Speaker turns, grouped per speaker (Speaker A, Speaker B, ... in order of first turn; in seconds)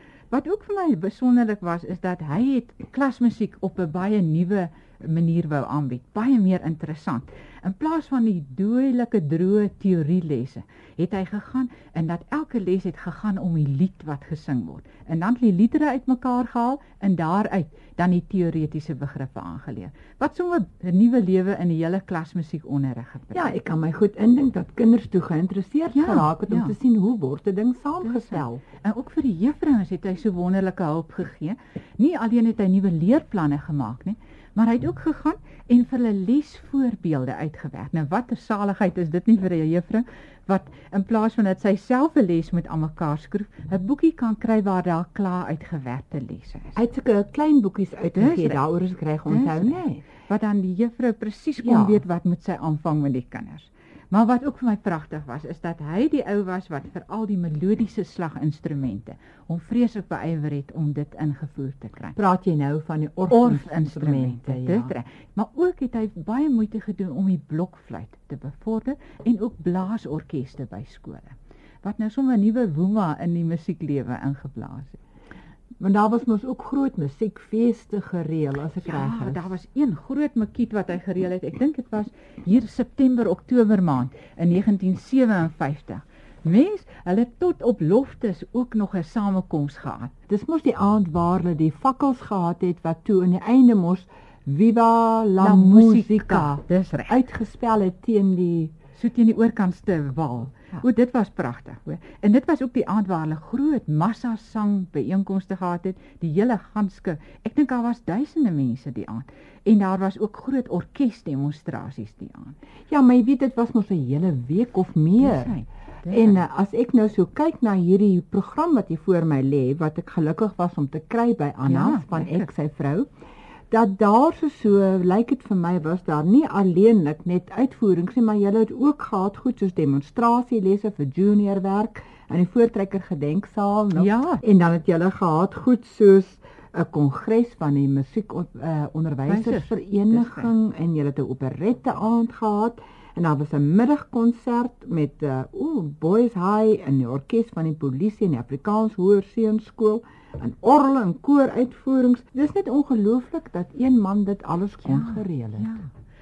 Speaker A: 0.3-23.5, 25.9-26.8, 28.0-46.8, 48.2-48.6, 49.3-62.2, 63.3-75.0, 78.8-90.1, 95.4-97.2, 98.9-112.6, 115.2-116.4, 121.7-122.5, 133.9-134.4, 139.3-140.5, 154.8-155.9
Speaker B: 23.3-28.6, 46.8-50.0, 51.6-52.0, 62.2-64.9, 75.8-79.5, 90.3-98.8, 112.9-115.6, 116.1-123.1, 123.7-155.8